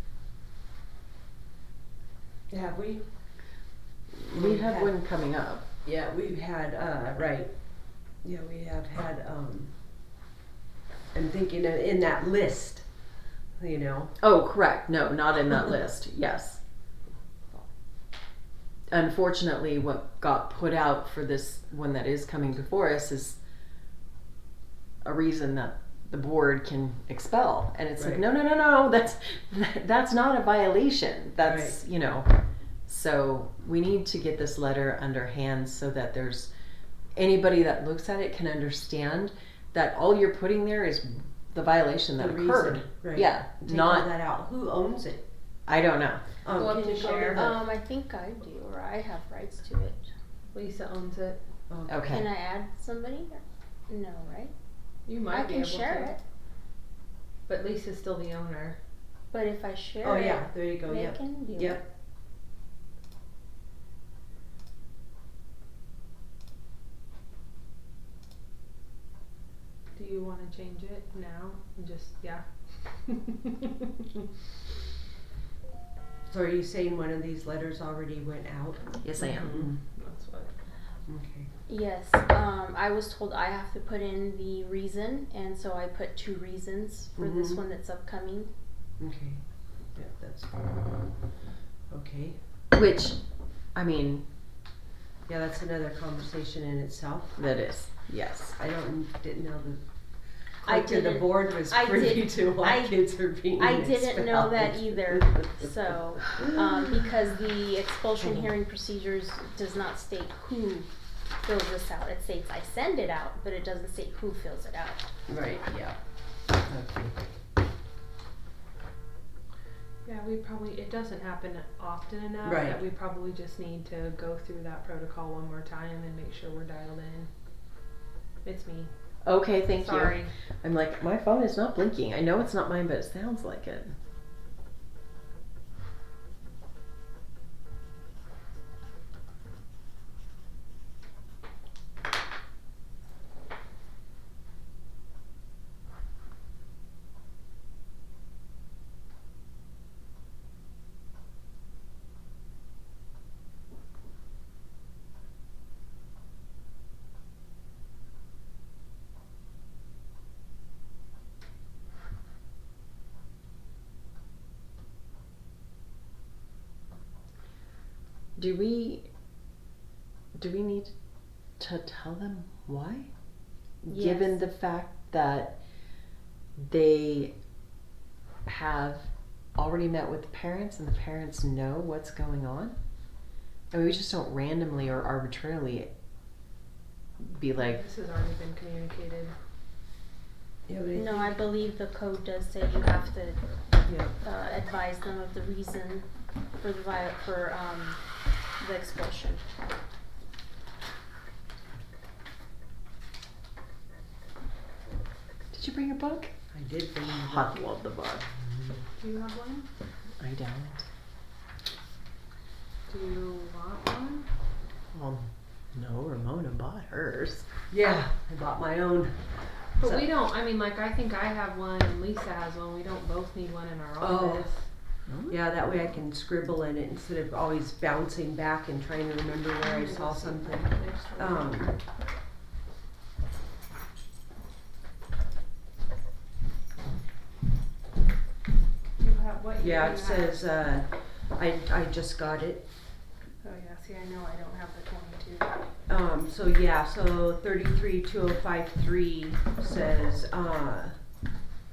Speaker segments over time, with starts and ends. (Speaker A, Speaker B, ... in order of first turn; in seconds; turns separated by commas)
Speaker A: 2.5-3.0, Speaker B: 4.1-5.6, Speaker A: 4.3-4.9, Speaker A: 5.8-7.5, Speaker A: 8.2-9.7, Speaker A: 11.1-12.8, Speaker A: 13.6-14.1, Speaker B: 14.2-16.6, Speaker B: 18.9-23.4, Speaker B: 25.0-32.3, Speaker A: 31.4-31.8, Speaker B: 32.9-36.5, Speaker B: 37.1-44.1, Speaker A: 42.2-45.2, Speaker B: 45.7-46.2, Speaker A: 46.4-47.6, Speaker C: 46.5-47.4, Speaker D: 47.2-50.1, Speaker C: 50.5-51.4, Speaker A: 51.7-52.2, Speaker B: 51.9-52.3, Speaker D: 52.1-54.5, Speaker C: 55.0-56.2, Speaker D: 55.3-56.2, Speaker C: 57.5-58.8, Speaker D: 59.3-61.8, Speaker A: 60.0-61.8, Speaker C: 69.9-73.7, Speaker A: 76.3-79.7, Speaker B: 79.0-79.7, Speaker C: 79.2-80.5, Speaker A: 81.1-81.5, Speaker D: 81.7-88.5, Speaker A: 87.2-87.6, Speaker A: 89.0-89.4, Speaker A: 89.9-91.0, Speaker A: 91.9-92.4, Speaker B: 92.7-93.2, Speaker B: 93.7-94.2, Speaker A: 95.3-97.4, Speaker B: 97.4-98.5, Speaker A: 98.5-99.8, Speaker A: 100.6-105.6, Speaker D: 100.6-110.9, Speaker A: 106.3-106.9, Speaker A: 108.2-108.5, Speaker D: 111.4-115.0, Speaker A: 115.3-116.0, Speaker A: 116.6-117.2, Speaker C: 120.0-127.3, Speaker A: 122.4-122.8, Speaker C: 128.4-128.9, Speaker B: 129.2-133.9, Speaker C: 129.7-130.3, Speaker B: 168.4-169.1, Speaker B: 170.3-170.9, Speaker B: 171.6-173.1, Speaker B: 173.8-175.6, Speaker D: 173.9-174.4, Speaker B: 176.6-177.3, Speaker B: 178.4-182.8, Speaker B: 183.7-185.9, Speaker B: 187.2-187.8, Speaker C: 187.6-189.3, Speaker A: 190.7-191.4, Speaker D: 190.9-193.4, Speaker A: 193.8-194.1, Speaker D: 194.2-196.0, Speaker D: 196.6-198.0, Speaker D: 198.6-199.4, Speaker B: 205.5-206.3, Speaker A: 206.5-207.6, Speaker B: 207.2-208.3, Speaker C: 209.0-209.7, Speaker B: 210.2-210.8, Speaker C: 212.9-214.3, Speaker B: 214.9-217.4, Speaker A: 217.7-219.2, Speaker C: 219.8-224.6, Speaker A: 219.8-220.1, Speaker A: 224.0-224.5, Speaker B: 225.1-225.4, Speaker A: 225.3-231.8, Speaker C: 229.6-231.6, Speaker C: 239.0-240.4, Speaker A: 239.6-242.6, Speaker C: 243.4-245.6, Speaker A: 245.9-250.9